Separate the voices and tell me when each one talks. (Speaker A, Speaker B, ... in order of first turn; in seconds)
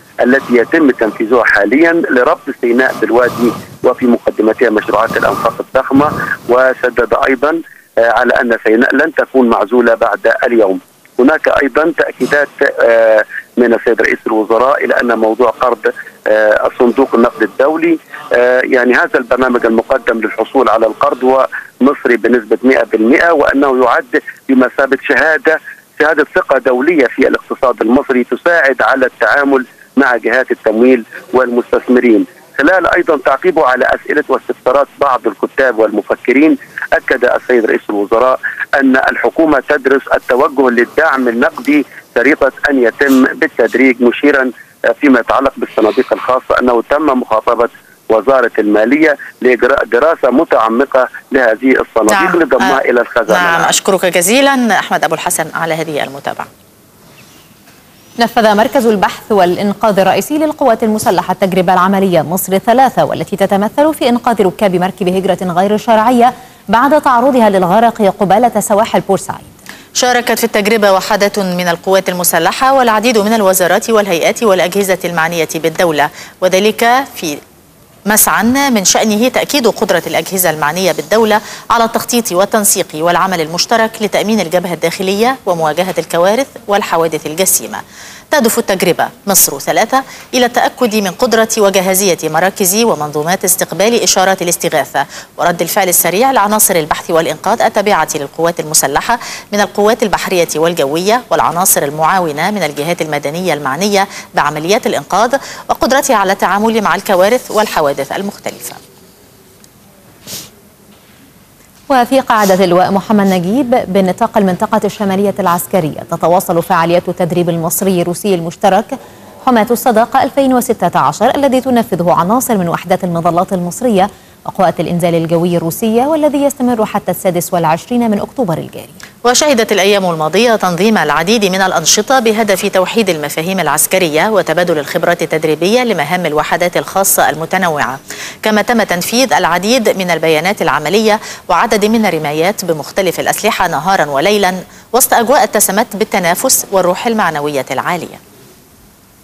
Speaker A: 0.2-53.7
Speaker B: 52.1-52.8, 53.3-56.5, 70.0-77.4, 78.1-108.8, 129.2-148.2
Speaker C: 58.2-69.5, 111.9-129.0